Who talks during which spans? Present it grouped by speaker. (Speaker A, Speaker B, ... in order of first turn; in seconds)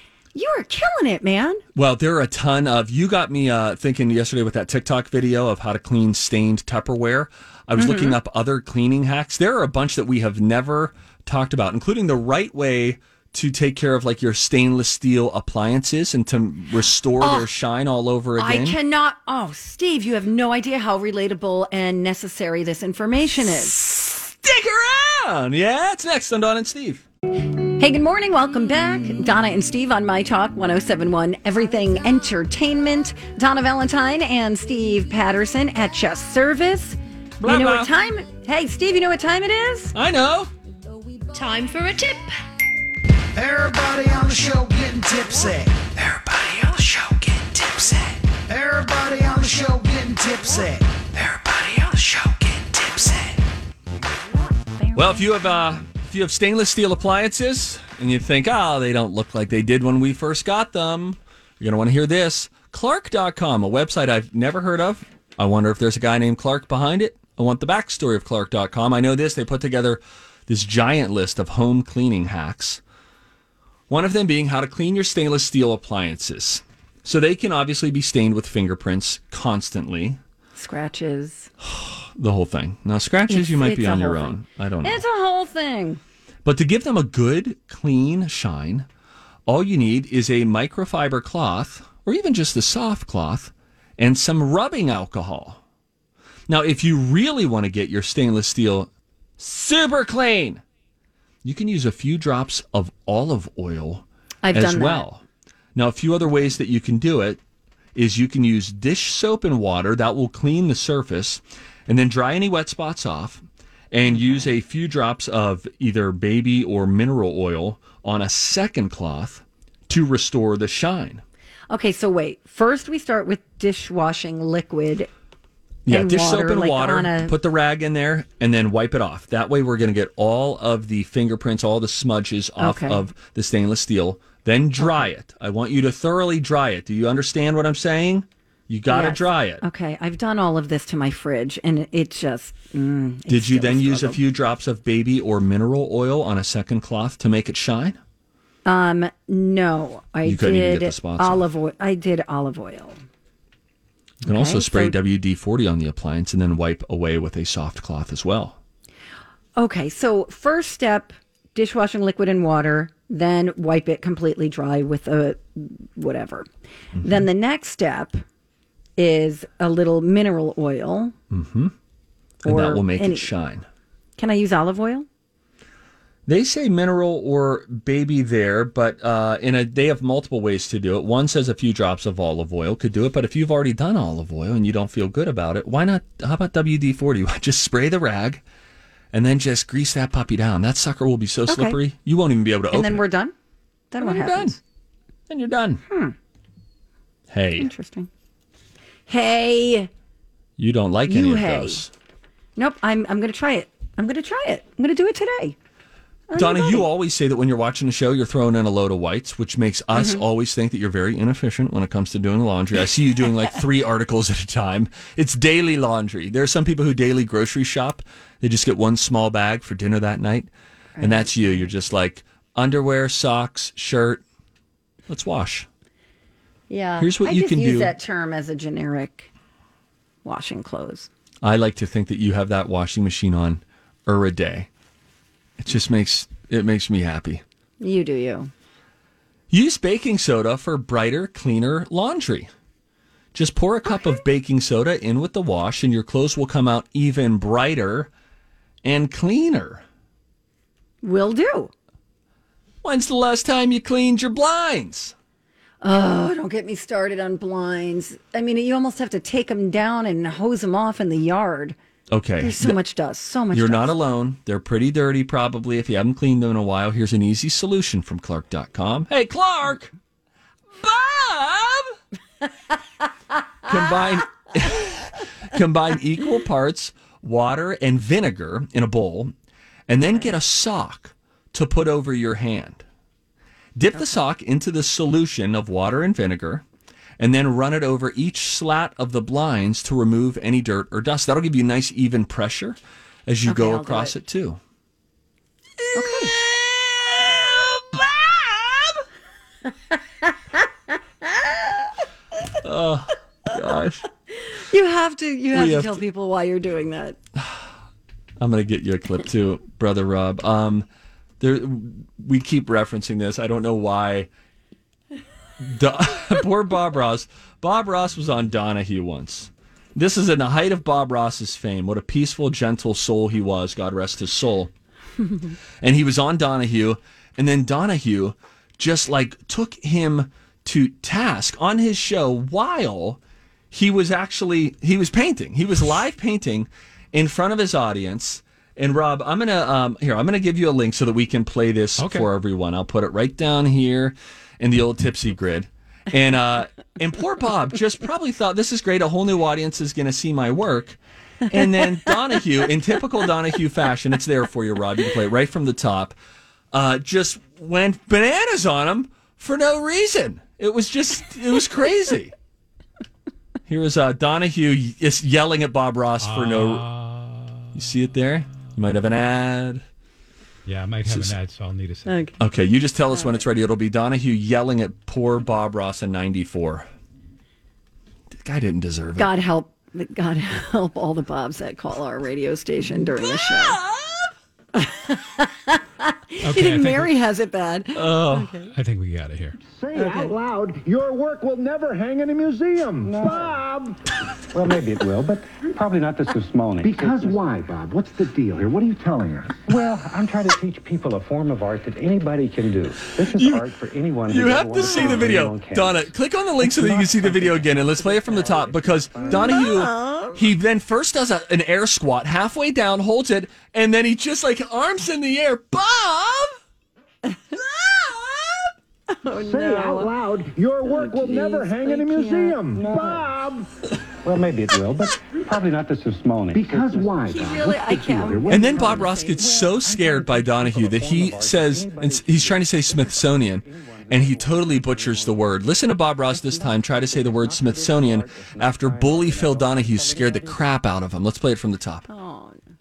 Speaker A: 0.3-1.6, 7.8-8.2, 17.2-17.5, 18.4-23.8, 27.8-40.0, 54.7-55.2, 80.5-81.5, 83.3-86.0, 104.4-105.0, 114.2-114.4, 121.7-125.1, 125.9-127.3, 132.6-133.1, 134.8-135.1, 138.9-144.2, 148.7-153.0, 154.3-155.0, 159.6-166.5, 167.0-168.2, 169.0-171.1, 172.4-173.3, 174.2-175.1, 191.5-191.8, 192.7-193.3, 193.9-194.6, 195.9-196.2, 197.6-198.1, 199.1-199.9, 201.1-201.8, 202.6-205.6, 206.3-206.9, 210.0-210.2, 221.0-221.7, 226.7-229.3, 230.2-231.1, 237.8-238.5, 243.9-244.2, 251.0-251.7, 255.8-261.8, 262.4-263.9, 293.5-294.1, 295.9-296.3, 304.4-307.2, 372.1-372.3, 379.2-383.8, 384.8-388.7, 389.9-390.3, 404.8-405.2, 409.2-410.4, 417.3-417.6, 419.1-420.1, 420.8-423.3, 427.3-429.6, 442.1-442.6
Speaker B: 1.8-18.8, 23.8-27.1, 37.4-37.9, 39.9-40.5, 54.9-72.8, 73.9-80.2, 81.6-85.0, 86.4-88.9, 89.5-95.6, 96.5-100.6, 101.4-105.2, 105.8-107.4, 108.0-121.2, 125.9-139.6, 143.3-148.0, 150.2-151.4, 154.2-158.6, 167.0-167.2, 171.3-171.7, 172.4-173.7, 176.3-188.4, 189.1-193.0, 194.0-194.6, 195.3-195.8, 197.3-197.7, 200.6-201.9, 206.3-224.2, 225.1-225.7, 227.0-227.9, 231.4-234.7, 235.6-237.4, 239.5-242.5, 243.3-248.1, 248.8-249.8, 252.8-255.2, 262.1-262.8, 263.5-269.9, 270.8-271.9, 273.6-279.3, 279.9-282.9, 283.8-286.6, 287.2-294.6, 295.8-299.0, 302.6-304.0, 305.5-306.0, 307.4-307.7, 308.4-310.9, 311.4-314.3, 315.6-324.7, 325.8-333.2, 333.7-356.2, 356.7-362.3, 363.7-366.9, 367.7-369.8, 371.1-371.4, 372.4-376.9, 378.4-379.3, 383.2-384.3, 387.9-388.6, 403.2-403.6, 404.3-416.6, 428.5-442.1
Speaker C: 41.3-42.3, 43.4-53.4
Speaker D: 342.0-342.3, 366.2-367.7, 370.7-372.3, 386.4-387.1, 388.7-389.6
Speaker E: 389.6-394.0, 396.8-399.8, 419.3-423.7, 426.5-428.6
Speaker F: 393.0-393.6, 394.5-397.8, 399.7-409.9, 422.7-423.3, 424.2-435.6, 436.2-440.7